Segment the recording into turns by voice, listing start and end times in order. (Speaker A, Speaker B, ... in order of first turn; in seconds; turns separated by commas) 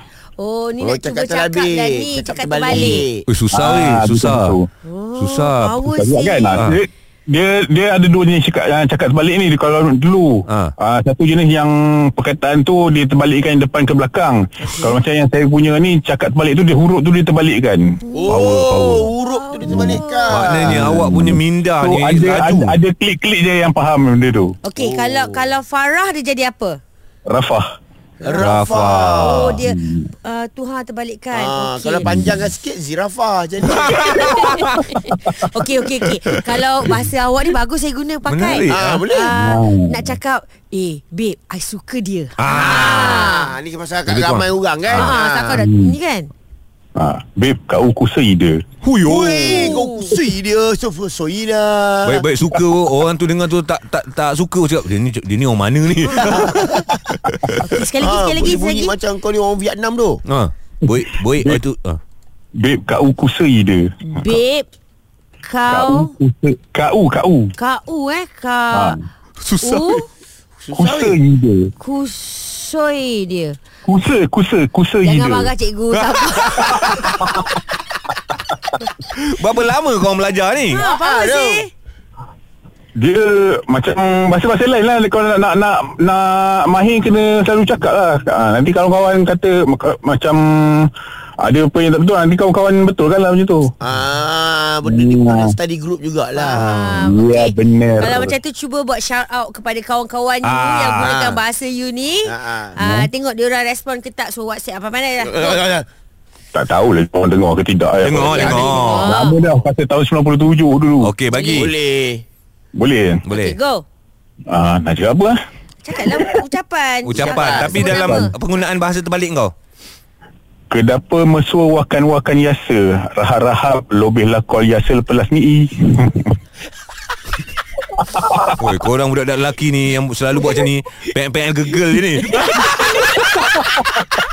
Speaker A: 0.4-3.0, Speaker B: 0.8-3.2, Speaker C: 3.3-4.5, Speaker D: 3.5-4.7, Speaker A: 4.8-6.6, Speaker C: 5.2-5.8, Speaker D: 5.8-17.8, Speaker C: 10.5-10.7, Speaker A: 14.6-14.9, Speaker A: 18.1-18.5, Speaker B: 18.1-20.8, Speaker C: 18.3-19.1, Speaker A: 19.2-20.5, Speaker D: 19.7-20.0, Speaker C: 20.3-22.8, Speaker D: 20.6-24.5, Speaker A: 24.6-26.8, Speaker B: 24.8-25.5, Speaker D: 27.3-27.6, Speaker B: 28.2-29.4, Speaker C: 28.4-29.5, Speaker A: 29.0-32.1, Speaker D: 29.5-30.1, Speaker B: 31.3-34.0, Speaker D: 32.0-32.5, Speaker C: 33.6-34.8, Speaker A: 34.0-43.5, Speaker C: 38.3-39.1, Speaker B: 38.7-39.3, Speaker D: 39.3-40.1, Speaker C: 42.4-43.3, Speaker B: 42.6-45.6, Speaker C: 44.1-45.1, Speaker A: 45.0-46.3, Speaker D: 45.6-45.9, Speaker D: 47.0-48.6, Speaker C: 48.8-49.8, Speaker B: 49.0-52.2, Speaker A: 49.5-50.2, Speaker C: 52.0-57.5, Speaker A: 57.6-58.9, Speaker B: 58.0-60.2, Speaker C: 60.2-62.0, Speaker D: 62.6-64.4, Speaker A: 64.0-64.7, Speaker A: 65.4-66.1, Speaker D: 65.7-67.5, Speaker A: 67.6-69.0, Speaker D: 68.7-69.0, Speaker C: 69.4-70.0, Speaker A: 69.6-70.0, Speaker B: 70.6-71.2, Speaker D: 70.7-71.7, Speaker A: 71.8-73.6, Speaker D: 73.8-75.5, Speaker A: 75.0-77.1, Speaker C: 76.0-77.0, Speaker D: 76.8-77.5, Speaker C: 79.2-80.8, Speaker A: 80.7-81.7, Speaker B: 80.8-81.7, Speaker D: 83.0-90.9, Speaker D: 91.4-93.7, Speaker B: 93.8-96.8, Speaker D: 94.8-95.5, Speaker A: 96.3-105.6, Speaker D: 96.6-98.3, Speaker C: 100.4-101.1, Speaker B: 101.1-101.4, Speaker B: 102.2-102.8, Speaker D: 102.8-103.1, Speaker B: 105.2-105.8, Speaker D: 106.5-111.1, Speaker C: 108.0-109.1, Speaker A: 108.3-109.4, Speaker C: 111.0-111.7, Speaker A: 111.3-111.7, Speaker B: 111.5-112.2, Speaker D: 112.8-113.2, Speaker C: 113.2-113.5, Speaker A: 113.3-113.8, Speaker D: 114.5-115.3, Speaker A: 115.8-118.3, Speaker C: 117.1-119.5, Speaker B: 117.4-117.7, Speaker D: 117.8-118.2, Speaker D: 120.7-126.3, Speaker D: 128.0-128.6, Speaker C: 128.6-133.7